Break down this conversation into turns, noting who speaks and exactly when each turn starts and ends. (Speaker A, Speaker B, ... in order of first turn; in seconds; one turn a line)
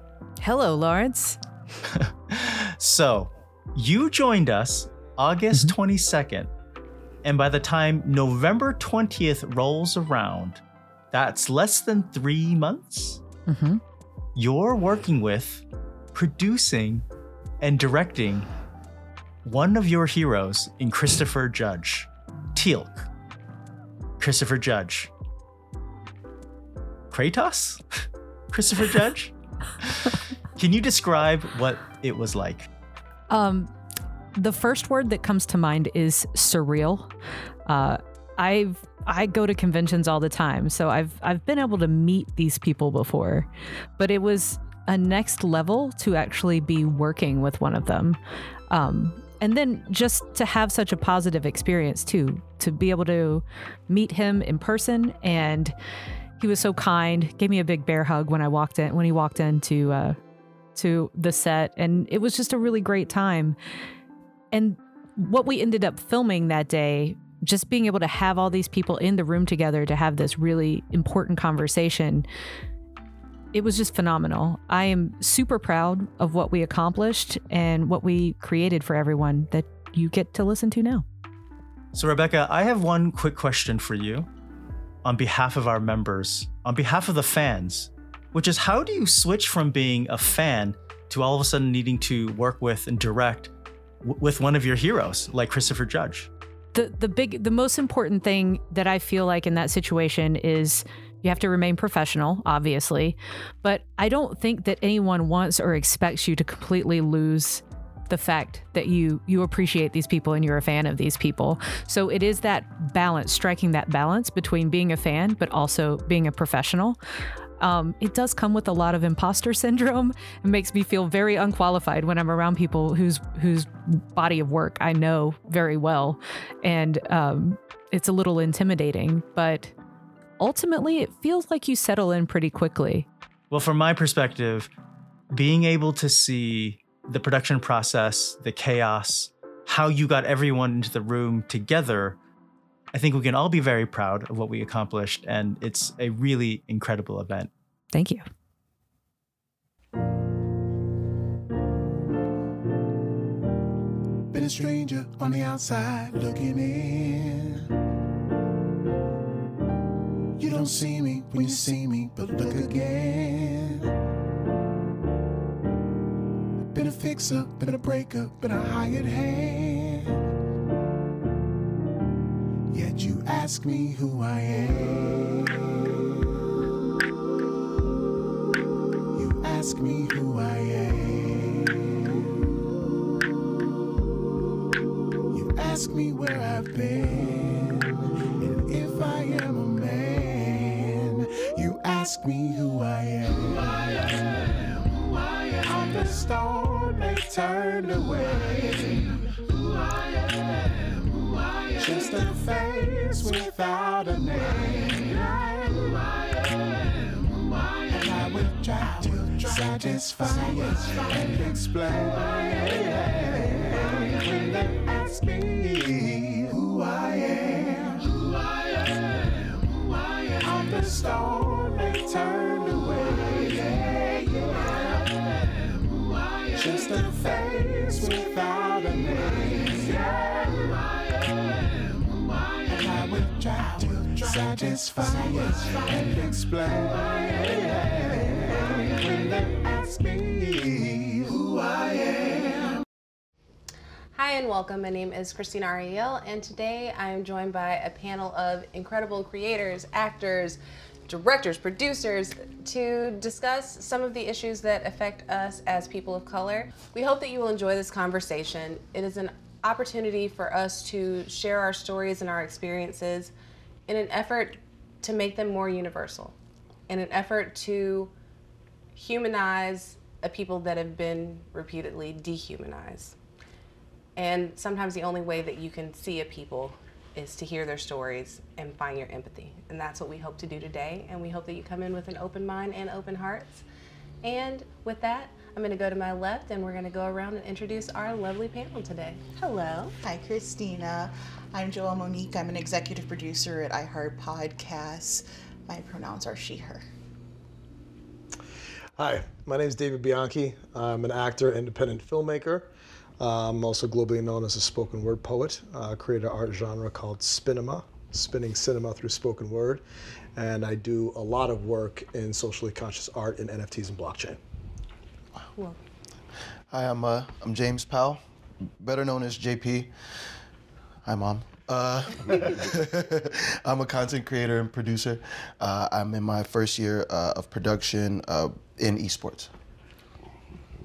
Speaker A: 0.4-1.4
Speaker B: 2.3-6.5
Speaker B: 7.2-13.2
Speaker A: 13.5-13.8
Speaker B: 14.3-17.0
Speaker B: 17.6-18.5
Speaker B: 19.4-23.1
Speaker B: 24.2-25.1
Speaker B: 27.1-27.8
Speaker B: 28.5-29.3
Speaker B: 30.6-32.7
Speaker A: 33.3-33.7
Speaker A: 34.4-37.1
Speaker A: 37.6-43.5
Speaker A: 44.0-48.2
Speaker A: 48.7-55.7
Speaker A: 56.4-60.2
Speaker A: 60.7-63.5
Speaker A: 64.5-72.2
Speaker A: 73.5-81.0
Speaker B: 81.9-84.3
Speaker B: 85.0-96.3
Speaker A: 96.7-117.0
Speaker A: 117.6-129.7
Speaker A: 130.4-133.1
Speaker B: 133.5-134.7
Speaker B: 135.3-142.2
Speaker B: 142.9-147.5
Speaker A: 147.9-148.2
Speaker C: 154.3-157.7
Speaker C: 160.4-163.9
Speaker C: 166.7-170.2
Speaker C: 172.7-175.8
Speaker C: 179.1-182.3
Speaker C: 185.3-200.8
Speaker C: 201.7-225.6
Speaker C: 226.5-230.9
Speaker C: 232.6-242.8
Speaker D: 244.1-263.3
Speaker D: 263.9-266.3
Speaker D: 266.9-268.1
Speaker D: 268.9-273.1
Speaker D: 274.1-283.6
Speaker D: 284.2-289.9
Speaker E: 290.0-296.8
Speaker F: 298.9-302.7
Speaker F: 303.2-309.8
Speaker F: 310.4-314.4
Speaker G: 316.7-318.2
Speaker G: 318.8-319.9
Speaker G: 321.0-329.5